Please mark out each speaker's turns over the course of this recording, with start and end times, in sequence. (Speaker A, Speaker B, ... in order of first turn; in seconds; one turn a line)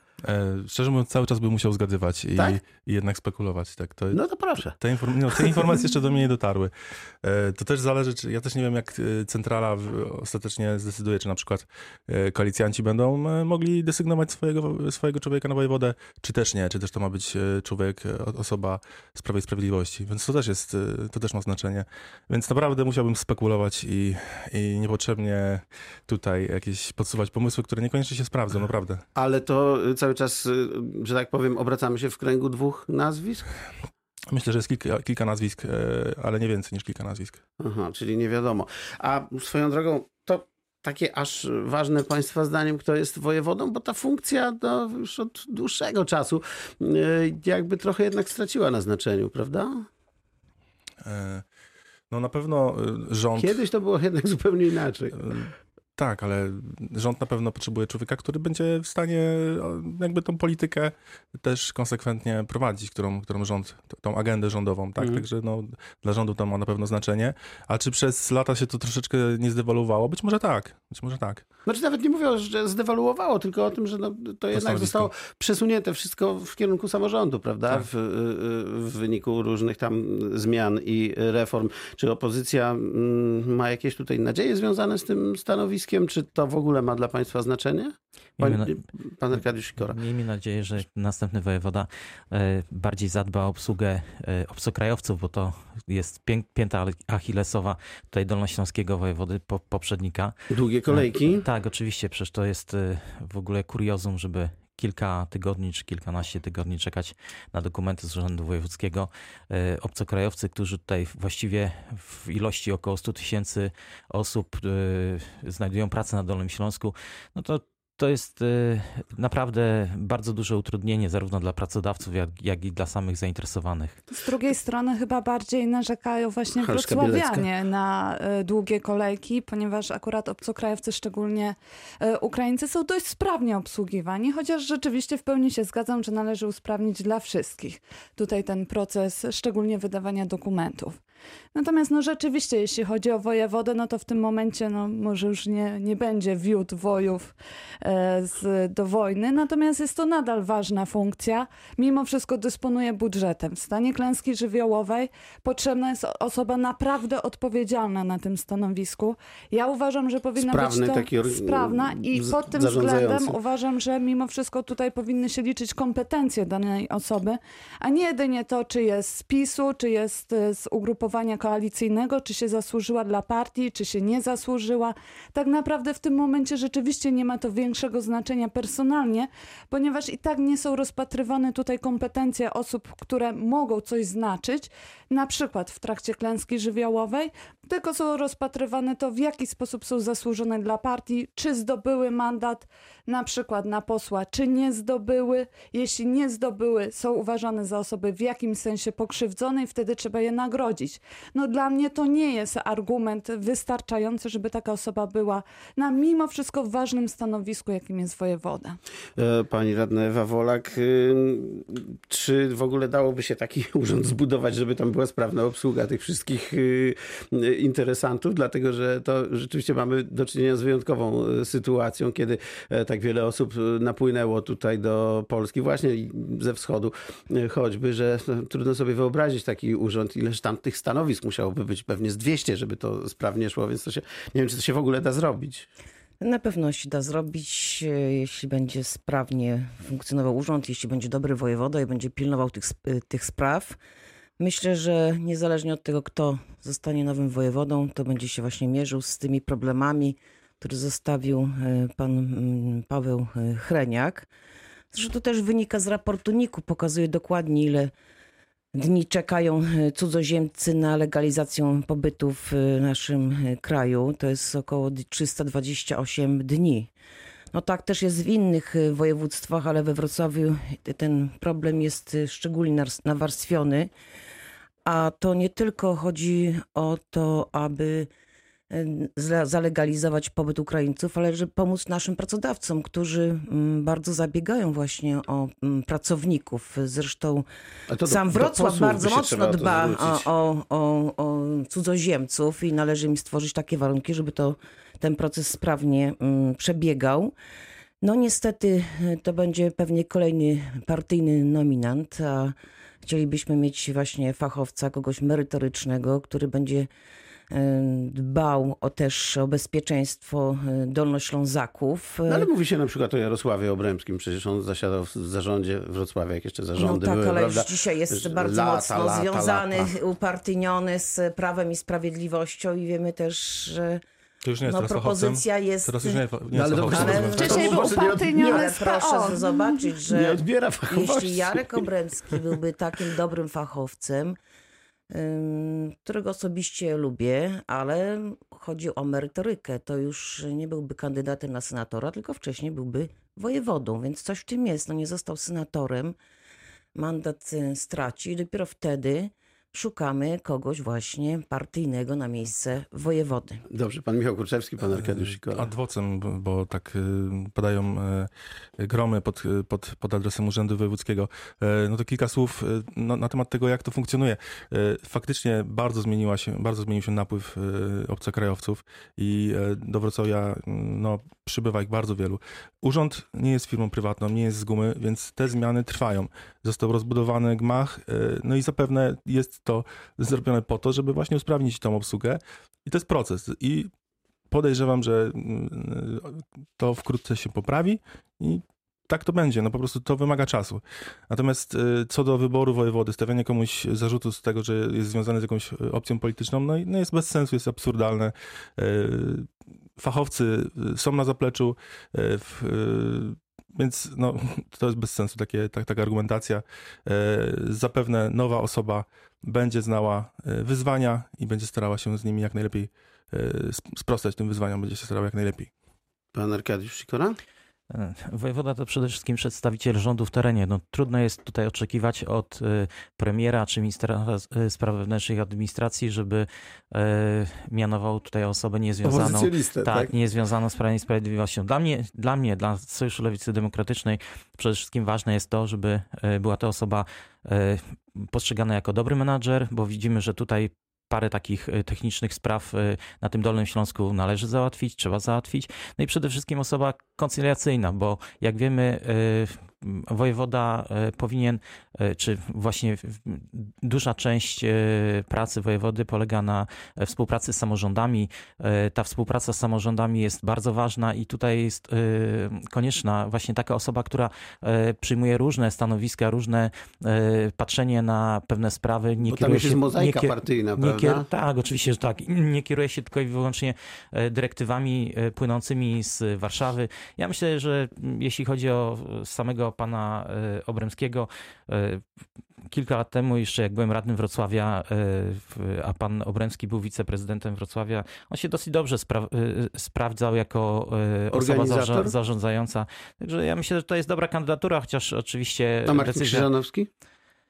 Speaker A: 0.2-4.2
Speaker B: 4.1-4.8
Speaker A: 4.7-6.7
Speaker A: 7.2-29.0
Speaker B: 29.1-33.5
Speaker A: 34.3-37.4
Speaker B: 37.6-49.9
Speaker A: 51.0-51.4
Speaker A: 52.1-53.6
Speaker B: 53.4-55.3
Speaker A: 55.3-71.4
Speaker B: 71.7-90.0
Speaker A: 74.5-75.1
Speaker C: 88.4-88.8
Speaker C: 89.8-100.3
Speaker B: 100.5-101.5
Speaker C: 100.9-124.0
Speaker D: 124.1-141.0
Speaker B: 126.5-127.5
Speaker D: 141.5-208.8
Speaker B: 160.4-163.4
Speaker B: 209.2-235.7
Speaker E: 236.2-243.8
Speaker E: 244.4-254.3
Speaker E: 254.9-257.9
Speaker E: 258.7-266.9
Speaker E: 267.5-273.9
Speaker E: 274.8-278.1
Speaker E: 278.7-287.4
Speaker B: 287.9-290.3
Speaker E: 288.0-297.3
Speaker E: 298.0-306.9
Speaker E: 307.5-312.5
Speaker B: 312.3-319.9
Speaker E: 316.8-324.0
Speaker A: 324.4-327.7
Speaker E: 324.6-326.2
Speaker B: 326.5-328.5
Speaker E: 326.8-334.4
Speaker D: 327.4-329.9
Speaker B: 330.1-331.8
Speaker E: 335.1-346.1
Speaker E: 346.9-353.6
Speaker B: 353.7-355.6
Speaker A: 354.9-383.9
Speaker A: 384.5-415.7
Speaker B: 416.3-417.4
Speaker C: 417.9-482.0
Speaker B: 429.0-430.1
Speaker B: 469.2-471.2
Speaker C: 482.7-496.5
Speaker B: 491.3-492.1
Speaker B: 495.9-496.9